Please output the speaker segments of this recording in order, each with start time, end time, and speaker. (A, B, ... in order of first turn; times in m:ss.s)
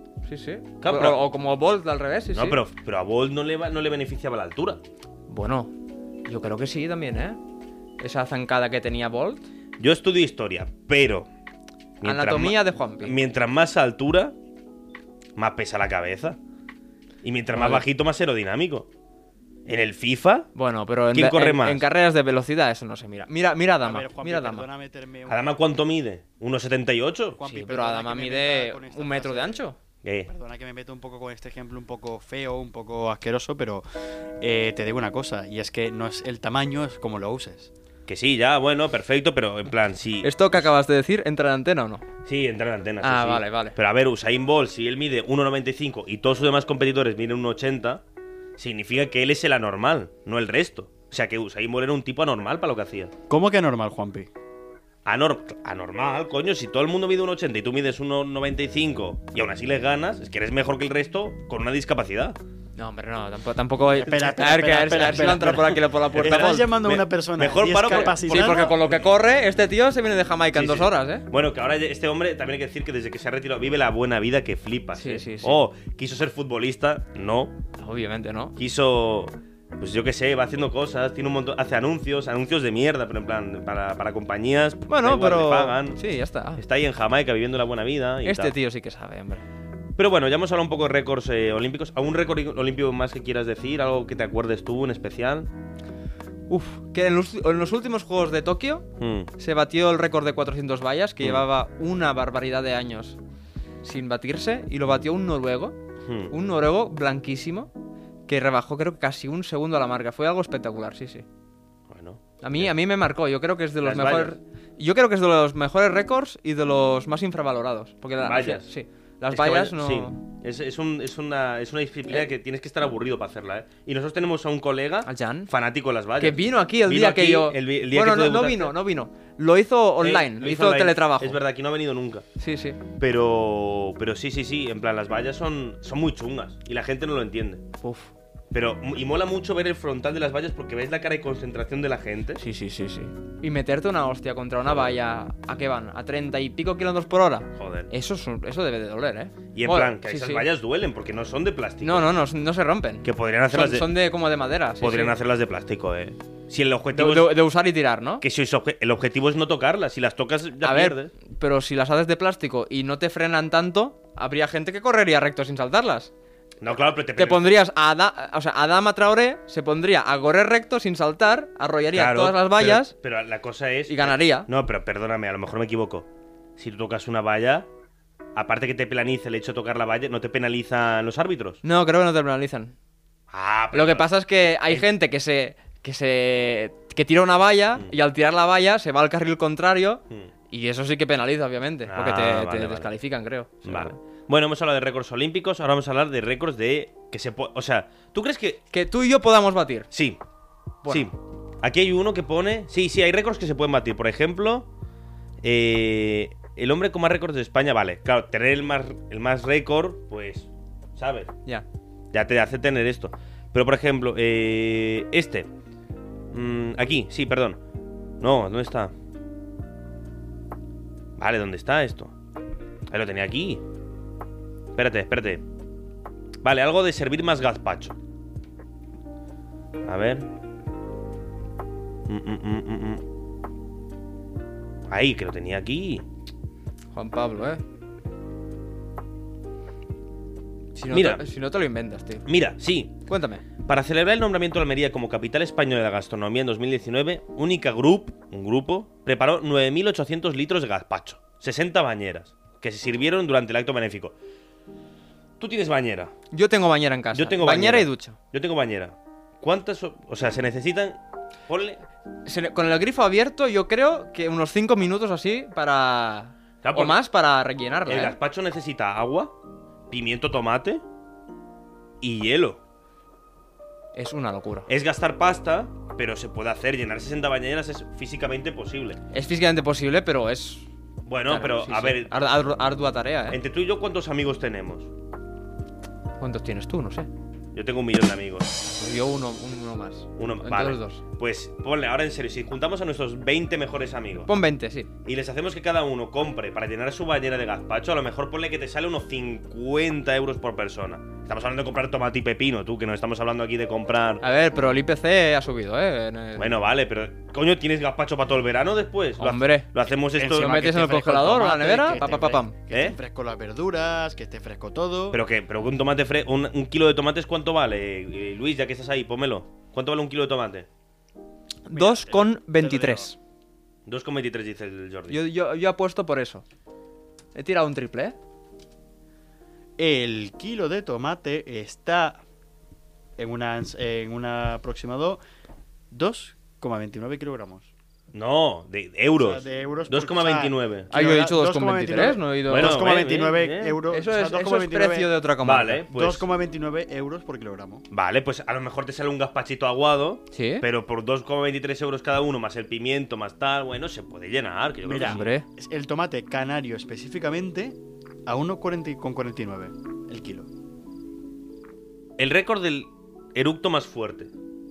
0:00.2-0:02.6 A
0:00.8-0:01.2 B
0:02.3-0:04.8 B
0:05.3-0:05.7 A
0:06.3-0:07.4 A
0:08.0-0:09.4 A
0:09.8-0:11.3 B
0:12.0-0:14.4 B
0:12.0-0:13.2 A
0:15.4-0:16.4 B
0:17.2-0:18.9 B
0:17.5-0:17.8 A
0:19.7-0:20.5 B
0:20.6-0:24.7 A
0:21.1-0:21.8 B
0:23.8-0:25.4 C
0:25.3-0:27.4 B
0:27.4-0:29.6 C
0:27.4-0:29.8 A
0:30.0-0:30.3 B
0:30.3-0:33.8 C
0:34.4-0:37.7 C
0:38.1-0:40.6 B
0:40.2-0:42.0 A
0:42.2-0:48.0 B
0:43.0-0:43.8 A
0:48.6-0:53.1 B
0:53.3-0:54.3 C
0:55.0-1:02.4 B
1:02.8-1:06.7 A
1:03.9-1:08.8 C
1:06.1-1:09.0 B
1:07.9-1:11.3 A
1:10.5-1:17.6 B
1:15.0-1:15.6 A
1:17.8-1:18.6 A
1:18.6-1:26.0 B
1:24.9-1:26.6 A
1:26.6-1:28.6 B
1:28.2-1:29.4 A
1:30.0-1:35.5 B
1:36.5-1:43.2 A
1:39.0-1:39.3 B
1:43.8-1:45.8 A
1:46.0-1:46.3 B
1:46.3-1:47.7 A
1:48.3-1:51.2 A
1:51.9-1:52.7 B
1:52.4-2:00.2 A
1:53.8-1:54.4 B
1:58.2-1:58.7 B
1:59.3-2:08.8 B
2:05.0-2:05.5 A
2:06.2-2:11.4 A
2:10.0-2:12.2 B
2:12.4-2:12.8 A
2:13.0-2:17.6 B
2:17.8-2:18.1 A
2:18.5-2:22.4 B
2:22.4-2:30.5 A
2:24.6-2:25.0 B
2:27.6-2:27.9 B
2:29.5-2:32.1 B
2:31.8-2:35.2 A
2:33.0-2:33.9 B
2:34.8-2:37.4 B
2:36.9-2:38.2 A
2:38.2-2:41.1 B
2:40.6-2:46.1 A
2:46.6-2:47.5 B
2:47.2-2:52.9 A
2:51.9-2:57.7 B
2:53.9-2:54.5 A
2:58.4-3:01.6 B
3:01.6-3:02.7 A
3:03.3-3:04.1 B
3:03.7-3:14.0 A
3:11.9-3:12.9 B
3:13.6-3:18.6 B
3:18.7-3:19.9 A
3:19.9-3:20.2 B
3:20.8-3:21.1 A
3:20.9-3:24.7 B
3:25.4-3:31.3 B
3:32.1-3:35.5 B
3:36.3-3:37.6 B
3:38.2-3:38.9 B
3:41.2-3:42.1 B
3:42.9-3:43.6 B
3:44.8-3:45.4 B
3:46.4-3:48.0 B
3:49.9-3:50.3 B
3:52.1-3:53.0 B
3:54.9-3:56.0 B
3:56.9-3:57.6 A
4:00.8-4:02.3 A
4:00.9-4:01.2 B
4:02.3-4:03.0 B
4:03.1-4:03.4 A
4:03.6-4:14.2 B
4:15.4-4:16.1 B
4:16.3-4:18.2 A
4:17.1-4:21.8 B
4:22.2-4:28.2 A
4:26.6-4:27.0 B
4:27.9-4:29.3 B
4:29.9-4:30.8 B
4:32.0-4:32.6 B
4:33.9-4:34.7 A
4:34.7-4:39.0 B
4:39.1-4:40.7 A
4:41.1-4:42.2 B
4:41.2-4:43.4 A
4:43.3-4:44.9 B
4:46.2-4:47.1 A
4:47.5-4:48.5 B
4:48.6-4:51.0 A
4:50.2-4:54.3 B
4:54.3-4:54.9 A
4:55.0-5:04.2 B
5:04.2-5:06.6 A
5:06.4-5:10.6 B
5:09.2-5:09.7 A
5:10.2-5:15.2 C
5:10.3-5:12.6 A
5:12.7-5:13.0 B
5:15.1-5:20.7 B
5:21.7-5:23.2 A
5:21.7-5:23.1 C
5:23.9-5:25.2 B
5:25.1-5:26.4 A
5:27.4-5:28.2 A
5:29.8-5:32.2 C
5:33.2-5:35.2 C
5:35.9-5:37.7 C
5:38.1-5:40.9 B
5:39.2-5:45.1 C
5:40.9-5:42.9 A
5:42.5-5:43.8 B
5:43.9-5:45.9 A
5:45.4-5:46.3 B
5:45.9-5:47.8 C
5:47.9-5:55.3 B
5:50.3-5:50.7 A
5:54.8-6:00.5 C
5:55.0-5:55.5 A
6:02.2-6:04.3 B